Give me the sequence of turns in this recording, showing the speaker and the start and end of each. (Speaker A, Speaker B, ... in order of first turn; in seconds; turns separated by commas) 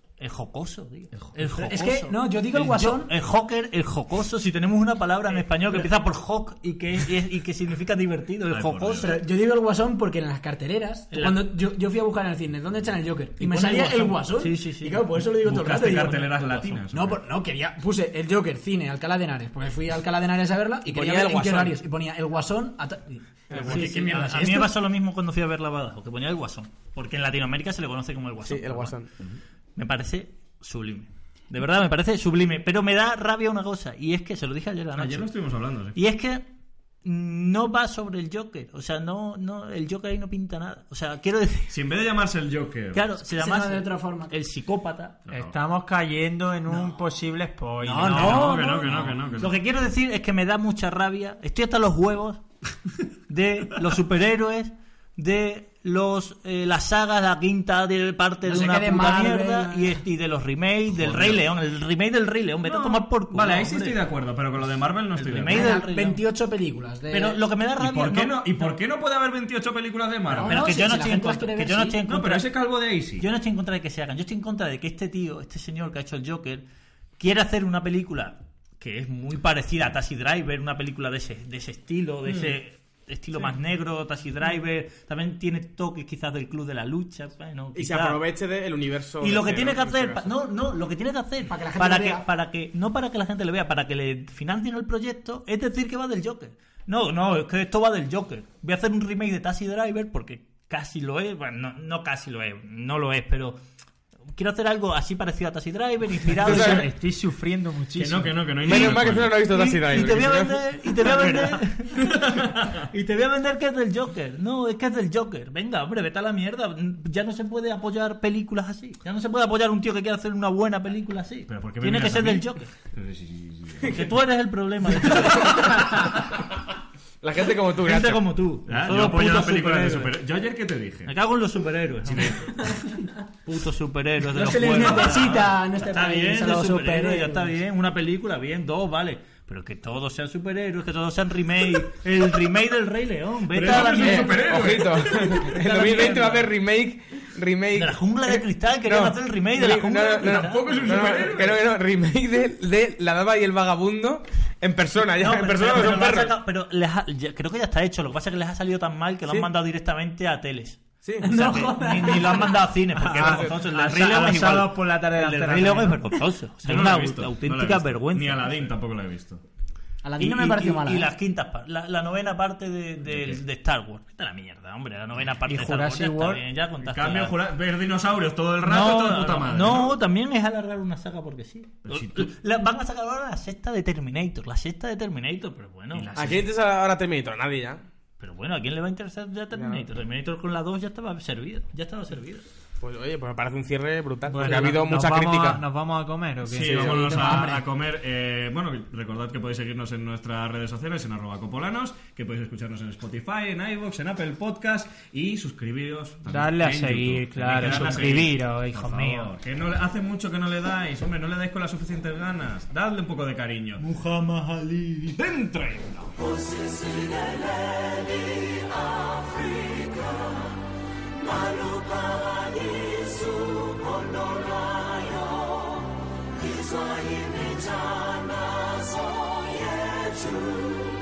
Speaker A: 0.2-9.1, Speaker B: 1.1-1.5, Speaker C: 1.5-3.1, Speaker B: 8.5-9.1, Speaker C: 8.9-16.3, Speaker A: 11.1-11.5, Speaker A: 13.4-15.2, Speaker B: 15.4-17.2, Speaker A: 16.0-16.8, Speaker C: 16.9-24.7, Speaker D: 20.8-21.8, Speaker A: 23.6-29.1, Speaker B: 23.6-24.2, Speaker D: 28.4-29.1, Speaker A: 29.8-35.3, Speaker B: 34.9-36.0, Speaker A: 35.9-36.4, Speaker A: 37.0-41.8, Speaker B: 41.7-43.1, Speaker A: 42.9-45.2, Speaker C: 43.3-44.3, Speaker B: 45.3-45.5, Speaker E: 45.3-48.6, Speaker C: 46.7-47.0, Speaker C: 47.8-49.0, Speaker B: 48.0-49.6, Speaker A: 48.8-52.4, Speaker A: 53.3-64.0, Speaker C: 58.4-60.0, Speaker B: 60.9-61.4, Speaker B: 62.6-65.8, Speaker A: 65.2-66.2, Speaker C: 65.5-67.4, Speaker A: 67.1-68.7, Speaker B: 67.8-70.9, Speaker C: 70.3-72.0, Speaker A: 70.4-76.6, Speaker B: 72.0-73.2, Speaker A: 77.2-88.2, Speaker B: 82.3-82.5, Speaker D: 87.7-90.2, Speaker A: 89.2-103.6, Speaker C: 91.5-92.2, Speaker A: 104.3-106.9, Speaker E: 106.4-108.4, Speaker D: 106.4-106.9, Speaker B: 108.0-109.5, Speaker D: 108.6-110.6, Speaker A: 108.7-112.3, Speaker B: 111.9-112.9, Speaker A: 112.9-122.7, Speaker B: 121.5-124.1, Speaker A: 123.9-126.0, Speaker B: 125.1-126.1, Speaker D: 127.2-128.2, Speaker A: 127.8-130.1, Speaker B: 128.7-131.1, Speaker A: 131.1-132.6, Speaker B: 132.0-132.9, Speaker A: 133.4-144.6, Speaker C: 134.3-137.6, Speaker B: 143.5-146.3, Speaker D: 143.7-156.3, Speaker A: 145.5-146.4, Speaker A: 147.7-150.6, Speaker B: 150.2-151.6, Speaker A: 155.1-168.6, Speaker D: 161.0-161.3, Speaker C: 161.2-162.7, Speaker D: 163.0-163.5, Speaker E: 163.1-166.0, Speaker B: 166.6-169.4, Speaker C: 170.0-171.1, Speaker A: 170.2-177.3, Speaker B: 173.1-173.4, Speaker E: 175.4-176.4, Speaker B: 176.8-180.0, Speaker A: 178.6-186.1, Speaker B: 181.8-182.3, Speaker B: 185.9-186.5, Speaker D: 186.1-187.8, Speaker A: 188.2-192.4, Speaker D: 189.5-189.8, Speaker D: 192.8-195.6, Speaker E: 194.3-197.2, Speaker B: 196.5-213.8, Speaker D: 196.7-197.0, Speaker C: 196.8-197.6, Speaker E: 206.3-209.3, Speaker A: 207.6-208.2, Speaker A: 213.8-215.2, Speaker B: 215.1-216.2